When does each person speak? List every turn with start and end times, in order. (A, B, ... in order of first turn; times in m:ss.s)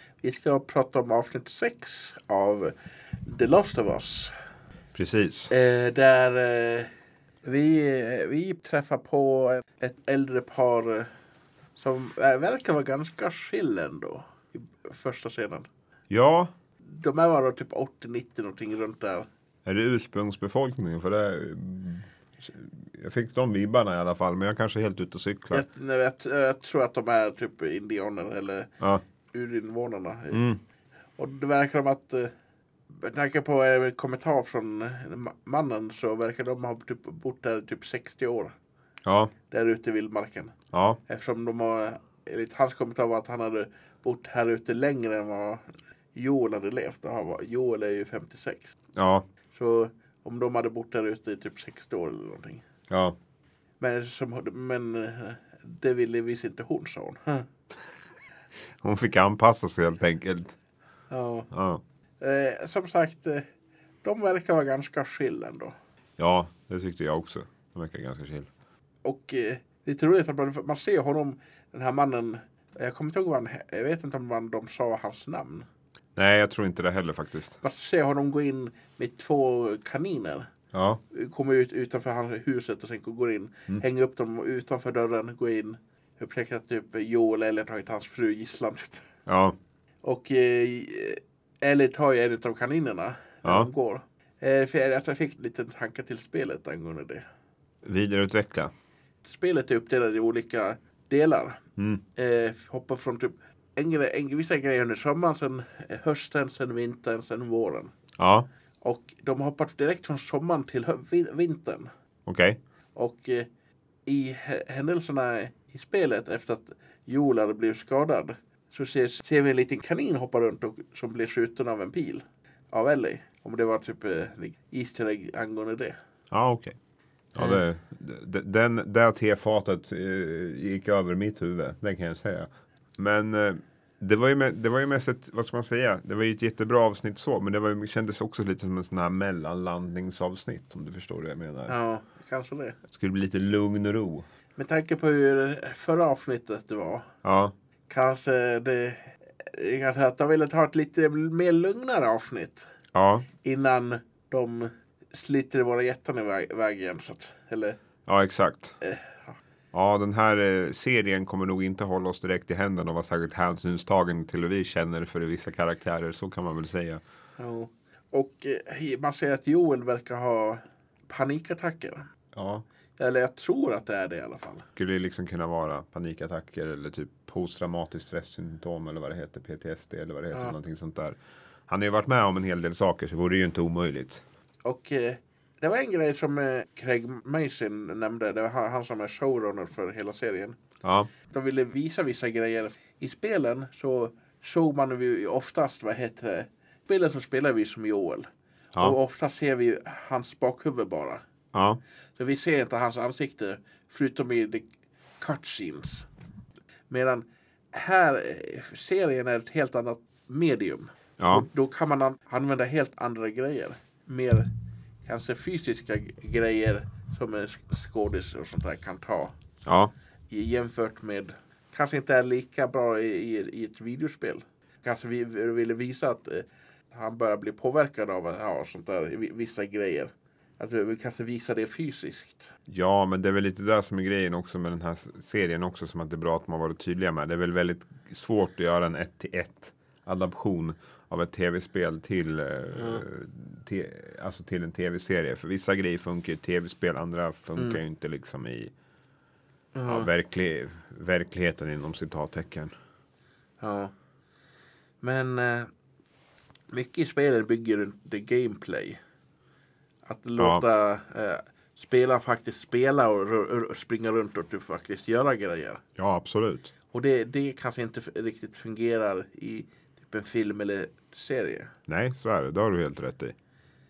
0:00.2-0:02.7 A
0:03.2-0:04.3 A
0:04.9-0:05.5 B
0:05.5-0:06.9 A
0:07.4-0:11.1 A
0:11.8-0:15.7 A
0:16.1-0:16.5 B
0:16.8-0:19.3 A
0:19.6-0:25.6 B
0:25.5-0:28.7 A
0:29.3-0:30.4 A
0:30.3-0:30.6 B
0:31.2-0:32.3 A
0:32.9-0:38.5 A
0:39.0-0:39.3 B
0:39.5-0:40.5 A
0:40.7-0:41.0 B
0:41.1-0:48.8 A
0:49.0-0:49.2 B
0:49.5-0:52.6 A
0:52.9-0:53.2 B
0:53.8-0:57.5 A
0:58.8-1:00.6 B
1:01.1-1:01.5 A
1:01.5-1:01.8 B
1:02.2-1:03.4 A
1:04.0-1:05.7 A
1:06.2-1:08.5 B
1:09.0-1:15.7 A
1:16.2-1:17.6 B
1:17.6-1:20.5 A
1:20.7-1:21.0 B
1:21.1-1:29.0 A
1:29.3-1:29.6 B
1:30.0-1:37.2 A
1:33.4-1:33.7 B
1:37.8-1:38.7 B
1:39.2-1:41.6 A
1:41.8-1:42.0 B
1:42.2-1:47.9 A
1:48.2-1:48.5 B
1:48.8-1:51.9 A
1:52.2-1:52.6 B
1:52.9-1:53.5 A
1:54.0-2:06.0 A
2:06.3-2:06.8 B
2:07.3-2:21.7 B
2:21.7-2:22.8 A
2:22.9-2:24.3 B
2:24.6-2:27.1 A
2:27.2-2:27.5 B
2:27.9-2:32.7 A
2:32.9-2:33.3 B
2:33.4-2:37.8 A
2:38.1-2:38.8 B
2:38.8-2:39.4 A
2:39.7-2:47.0 B
2:47.4-2:52.0 A
2:52.3-2:52.6 B
2:53.0-2:54.7 A
2:54.8-3:04.2 B
3:04.6-3:10.6 A
3:10.8-3:11.1 B
3:11.3-3:21.2 A
3:21.5-3:21.8 B
3:22.2-3:24.7 A
3:25.2-3:26.1 A
3:26.9-3:34.5 A
3:31.2-3:31.5 B
3:35.0-3:39.3 A
3:39.6-3:39.9 B
3:40.3-3:52.5 A
3:52.7-4:08.7 B
4:02.7-4:03.0 A
4:09.7-4:10.1 A
4:09.9-4:12.7 B
4:13.6-4:13.9 A
4:15.0-4:15.7 A
4:16.7-4:19.0 A
4:20.0-4:25.8 A
4:20.4-4:20.6 B
4:26.0-4:26.7 B
4:26.9-4:31.7 A
4:31.9-4:33.3 B